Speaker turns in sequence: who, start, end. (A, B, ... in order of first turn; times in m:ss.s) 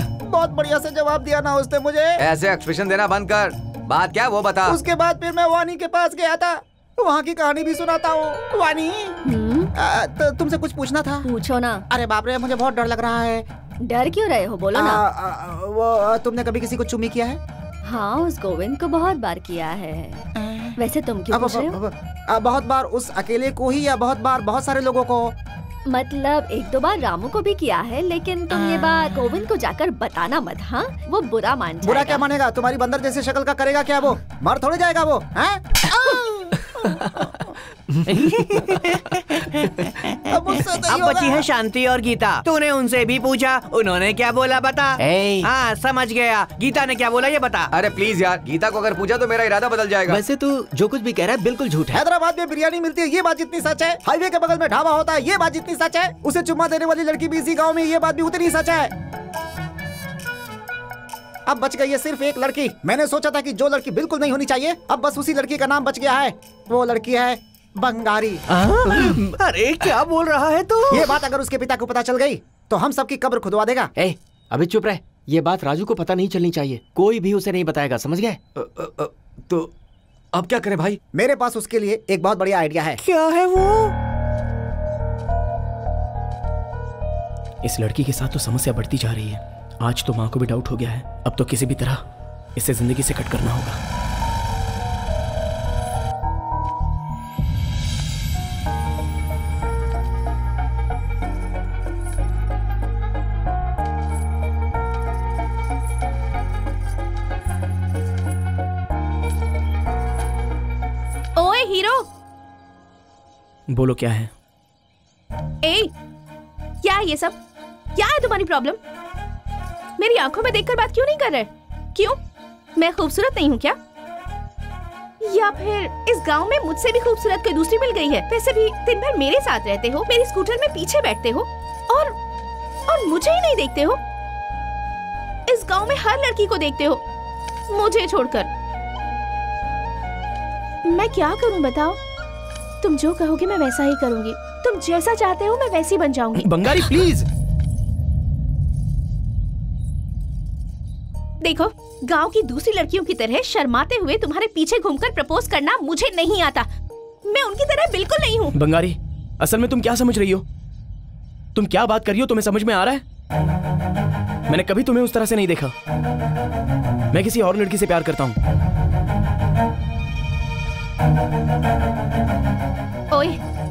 0:00.2-0:02.2 A
0:02.2-0:04.8 B
0:04.6-0:09.2 A
0:09.2-0:09.7 C
0:09.8-0:11.3 A
0:11.2-0:11.9 C
0:11.9-0:13.5 A
0:13.8-0:15.0 C
0:14.7-0:17.4 A
0:17.8-0:21.8 C
0:20.4-0:20.7 A
0:21.3-0:25.4 A
0:25.9-0:32.2 C
0:31.8-0:37.5 A
0:38.1-0:39.6 D
0:40.3-0:41.5 A
0:40.8-0:47.7 D
0:45.0-0:45.5 E
0:47.7-0:50.2 B
0:50.1-0:52.0 E
0:51.9-0:58.9 A
1:01.5-1:08.4 A
1:08.5-1:11.2 D
1:10.9-1:13.9 A
1:14.0-1:18.4 E
1:18.6-1:19.7 B
1:20.3-1:21.0 B
1:21.1-1:23.0 A
1:23.0-1:23.9 D
1:27.6-1:32.0 F
1:32.6-1:33.8 F
1:51.4-1:52.1 G
1:53.7-1:54.3 F
1:55.6-1:55.9 G
1:56.8-1:57.4 G
1:58.0-1:58.8 G
2:00.0-2:02.2 G
2:02.8-2:03.8 G
2:05.2-2:12.2 G
2:12.9-2:14.0 G
2:15.5-2:17.0 G
2:17.7-2:18.5 G
2:20.8-2:22.0 G
2:22.8-2:26.9 G
2:26.4-2:27.3 F
2:31.4-2:36.7 G
2:37.2-2:38.6 G
2:38.5-2:40.4 F
2:41.6-2:43.0 F
2:44.5-2:45.7 F
2:47.1-2:48.4 F
2:53.1-2:53.4 G